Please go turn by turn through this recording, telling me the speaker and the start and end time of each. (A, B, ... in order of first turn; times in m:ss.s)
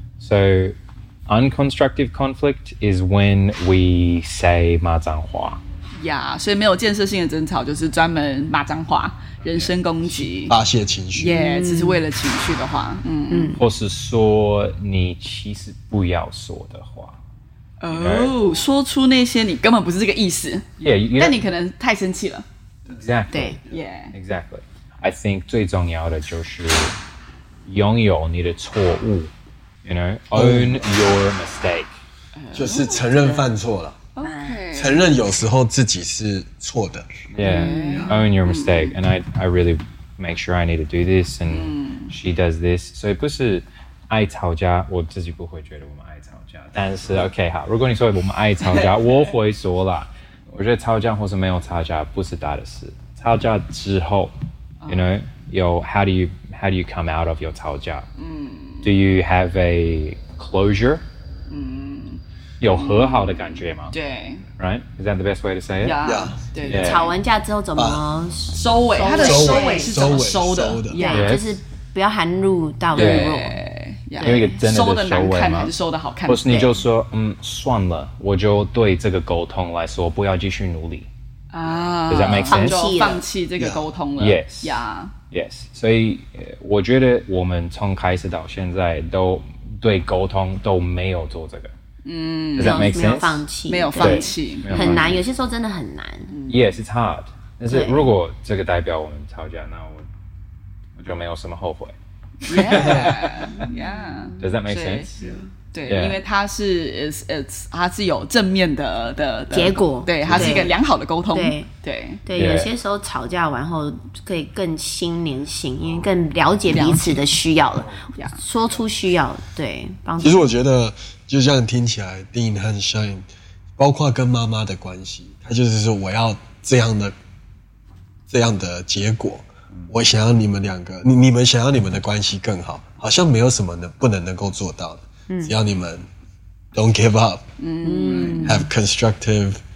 0:00.2-0:00.7 A
0:01.3-0:05.6 A
0:06.0-0:10.5 B
0:10.4-0:11.4 C
0:11.2-0:13.5 B
0:11.3-0:12.0 D
0:13.3-0:13.6 D
0:13.5-0:17.2 A
0:17.8-0:22.4 B
0:17.9-0:18.4 A
0:20.8-0:21.4 A
0:23.0-0:23.6 A
0:23.3-0:23.6 D
0:23.7-0:24.1 B
0:24.1-0:27.0 A
0:27.6-0:29.3 A
0:29.8-0:31.9 A
0:30.3-0:30.8 C
0:32.4-0:33.5 B
0:32.5-0:34.0 C
0:34.2-0:35.0 B
0:34.2-0:34.6 D
0:34.7-0:37.1 C
0:37.3-0:54.4 A
0:37.4-0:38.9 B
0:41.5-0:42.1 B
0:54.8-0:55.1 B
0:54.9-0:58.1 A
0:58.2-0:58.9 B
0:58.8-1:01.0 A
1:01.5-1:02.2 B
1:02.6-1:03.9 A
1:02.8-1:03.2 B
1:03.9-1:04.4 B
1:04.6-1:06.0 A
1:05.8-1:07.1 B
1:06.0-1:06.4 C
1:06.6-1:07.0 A
1:06.8-1:10.2 D
1:07.8-1:08.0 C
1:08.5-1:11.4 B
1:09.1-1:11.0 C
1:10.9-1:13.6 D
1:11.1-1:11.5 A
1:12.9-1:16.6 B
1:13.0-1:13.3 A
1:14.2-1:15.7 A
1:16.3-1:21.1 A
1:16.4-1:16.7 D
1:21.5-1:25.1 B
1:22.1-1:22.8 A
1:22.5-1:23.2 D
1:23.6-1:23.9 C
1:24.2-1:31.7 A
1:32.0-1:35.1 B
1:32.5-1:33.4 A
1:32.6-1:36.3 D
1:34.0-1:35.2 A
1:36.3-1:36.7 B
1:36.5-1:40.0 A
1:37.7-1:38.1 D
1:41.0-1:41.9 A
1:42.4-1:45.1 B
1:42.5-1:43.5 A
1:44.4-1:45.1 A
1:45.7-1:52.2 B
1:45.9-1:46.2 A
1:49.5-1:50.7 D
1:50.3-1:50.7 C
1:51.3-1:51.7 D
1:52.2-2:00.5 D
1:52.4-1:52.7 A
1:56.7-1:57.2 B
2:00.2-2:03.2 C
2:03.8-2:07.1 C
2:08.3-2:16.0 C
2:15.3-2:15.5 D
2:16.7-2:17.4 C
2:17.6-2:18.6 B
2:17.8-2:18.7 D
2:18.4-2:19.6 C